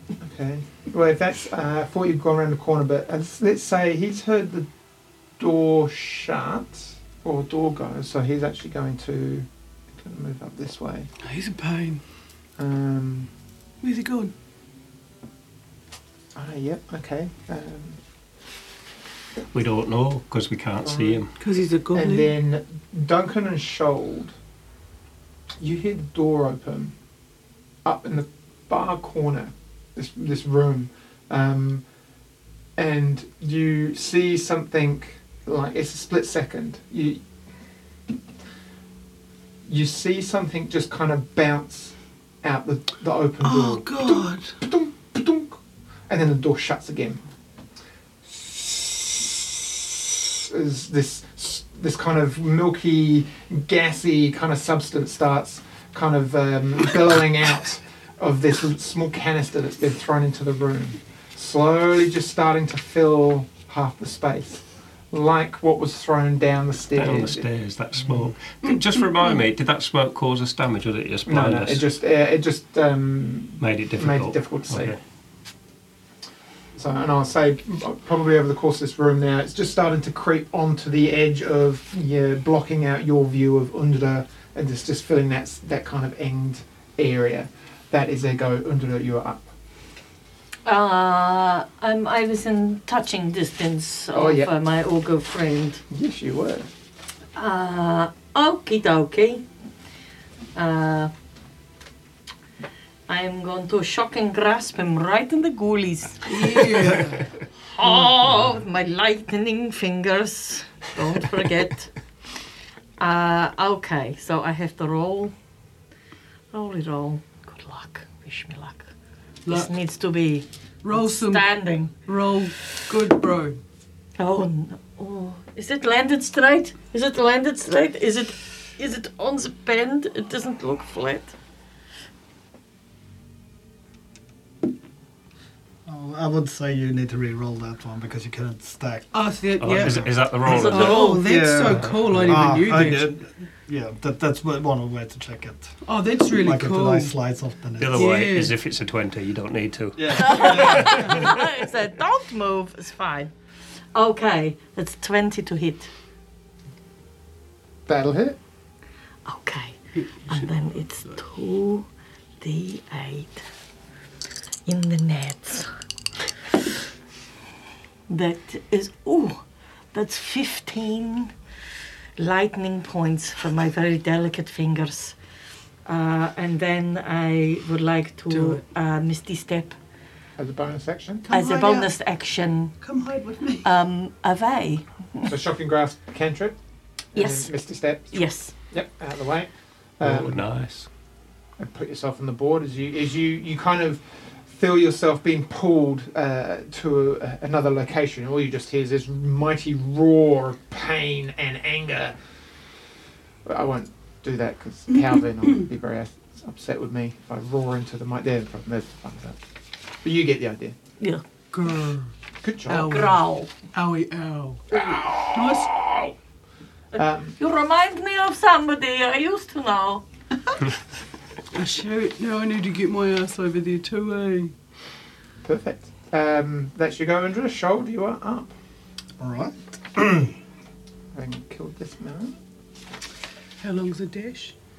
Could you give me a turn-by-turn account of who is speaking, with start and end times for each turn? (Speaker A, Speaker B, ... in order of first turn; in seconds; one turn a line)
Speaker A: 0.2-4.7
Speaker A: 5.4-11.1
Speaker B: 11.2-12.0
Speaker A: 12.6-13.3
Speaker B: 13.8-14.3
Speaker A: 16.3-18.0
Speaker C: 19.5-21.3
Speaker A: 20.8-21.2
Speaker B: 21.4-22.3
Speaker A: 21.9-24.3
Speaker A: 25.6-26.9
Speaker A: 27.8-31.8
Speaker A: 32.8-37.2
Speaker A: 39.6-47.2
Speaker B: 43.4-44.6
Speaker A: 48.3-67.5
Speaker C: 66.9-71.8
Speaker A: 71.2-75.0
Speaker C: 73.6-75.0
Speaker A: 76.8-89.5
Speaker D: 90.6-95.8
Speaker A: 94.1-94.5
Speaker A: 95.9-96.7
Speaker D: 97.3-99.4
Speaker D: 100.5-101.1
Speaker D: 103.1-107.1
Speaker B: 106.2-107.2
Speaker D: 107.7-111.9
Speaker D: 113.0-115.3
Speaker D: 116.5-118.9
Speaker B: 119.4-119.7
Speaker D: 119.5-121.9
Speaker B: 120.8-123.6
Speaker D: 124.2-131.3
Speaker E: 135.8-139.1
Speaker B: 139.1-143.1
Speaker C: 139.6-141.1
Speaker E: 139.8-140.1
Speaker D: 140.5-141.2
Speaker E: 141.2-145.7
Speaker C: 141.6-142.7
Speaker B: 145.8-147.1
Speaker E: 146.4-148.1
Speaker C: 147.8-151.3
Speaker B: 147.9-148.5
Speaker E: 150.0-151.0
Speaker D: 150.1-153.3
Speaker D: 153.9-155.9
Speaker A: 157.9-158.4
Speaker D: 159.2-161.9
Speaker B: 159.9-161.2
Speaker D: 162.4-163.4
Speaker D: 164.7-165.7
Speaker D: 168.1-169.4
Speaker D: 169.9-171.3
Speaker D: 172.2-175.2
Speaker D: 175.8-179.8
Speaker B: 178.3-178.6
Speaker A: 180.4-181.3
Speaker B: 181.2-181.9
Speaker D: 181.3-182.8
Speaker B: 182.8-183.7
Speaker D: 183.6-185.3
Speaker A: 185.2-186.6
Speaker A: 187.1-188.2
Speaker D: 187.1-187.5
Speaker D: 188.1-188.5
Speaker A: 188.7-190.4
Speaker C: 190.0-190.9
Speaker A: 191.6-202.1
Speaker A: 203.4-209.4
Speaker A: 210.0-210.7
Speaker B: 211.5-212.1
Speaker A: 212.4-213.1
Speaker B: 212.7-213.2
Speaker D: 212.8-213.5
Speaker B: 213.7-215.7
Speaker A: 214.7-216.1
Speaker D: 216.9-220.0
Speaker A: 216.9-217.4
Speaker B: 221.5-224.5
Speaker A: 225.4-228.5
Speaker E: 229.2-230.3
Speaker A: 231.1-232.3
Speaker B: 233.6-234.5